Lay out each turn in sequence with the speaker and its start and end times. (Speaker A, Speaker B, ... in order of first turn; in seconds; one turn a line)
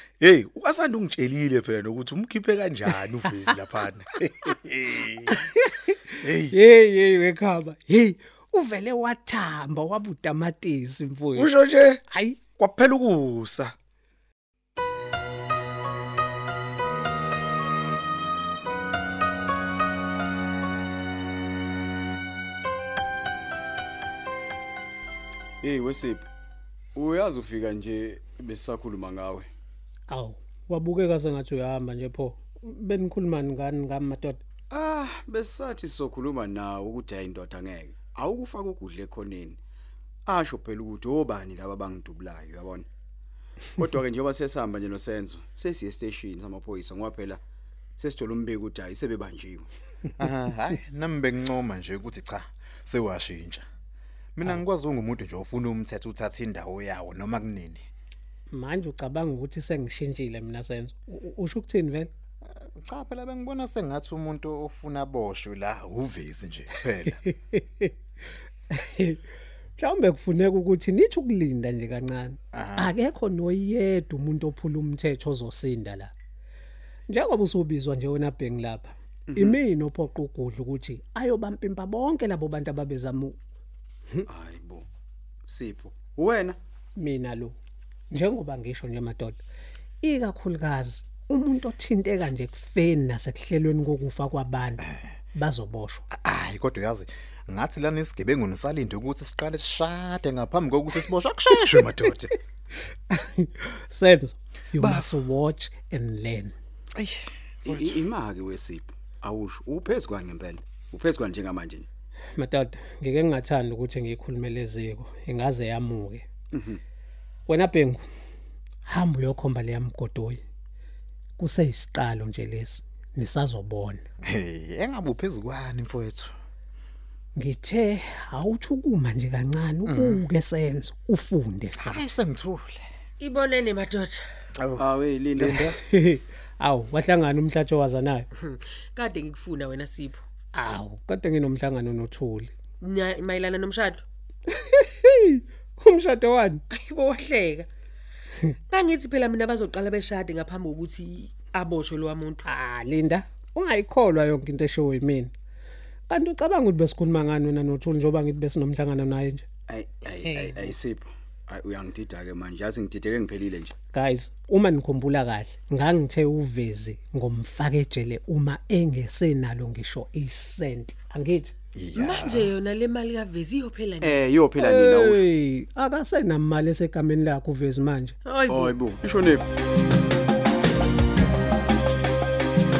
Speaker A: 0.2-5.3
Speaker B: 5.4-11.5
Speaker A: 6.2-6.6
Speaker A: 11.3-12.0
Speaker B: 12.1-12.4
Speaker A: 12.6-13.7
Speaker C: 25.6-26.3
Speaker C: 27.0-29.5
Speaker B: 30.1-34.4
Speaker C: 34.7-39.6
Speaker C: 40.3-42.9
Speaker C: 43.8-47.4
Speaker C: 48.0-49.7
Speaker D: 50.2-53.6
Speaker D: 54.4-57.8
Speaker B: 58.5-62.1
Speaker D: 62.8-67.2
Speaker B: 67.2-67.9
Speaker B: 68.7-69.2
Speaker B: 69.8-76.1
Speaker D: 72.5-72.9
Speaker B: 77.1-83.4
Speaker C: 79.3-79.6
Speaker C: 84.3-84.9
Speaker C: 85.5-86.6
Speaker B: 87.0-87.6
Speaker B: 88.1-89.4
Speaker B: 90.0-94.8
Speaker B: 95.3-96.1
Speaker D: 96.2-102.4
Speaker B: 103.1-106.5
Speaker D: 104.8-105.1
Speaker D: 107.0-108.0
Speaker C: 107.6-111.9
Speaker B: 112.4-116.3
Speaker C: 116.5-116.8
Speaker B: 117.5-118.0
Speaker B: 118.9-120.4
Speaker B: 121.4-124.0
Speaker D: 124.2-126.3
Speaker B: 127.4-132.1
Speaker D: 129.9-130.2
Speaker D: 131.8-132.8
Speaker E: 133.2-134.3
Speaker D: 134.6-135.8
Speaker C: 134.8-135.8
Speaker B: 135.8-138.3
Speaker E: 138.4-140.2
Speaker B: 140.5-142.5
Speaker E: 142.8-144.0
Speaker B: 144.5-146.6
Speaker E: 146.7-147.7
Speaker E: 148.7-152.4
Speaker B: 152.4-155.3
Speaker B: 156.1-159.4
Speaker C: 159.7-163.7
Speaker B: 163.9-171.5
Speaker D: 171.8-172.5
Speaker E: 171.9-174.3
Speaker C: 174.0-175.3
Speaker B: 174.6-178.2
Speaker E: 178.2-178.8
Speaker C: 178.5-179.5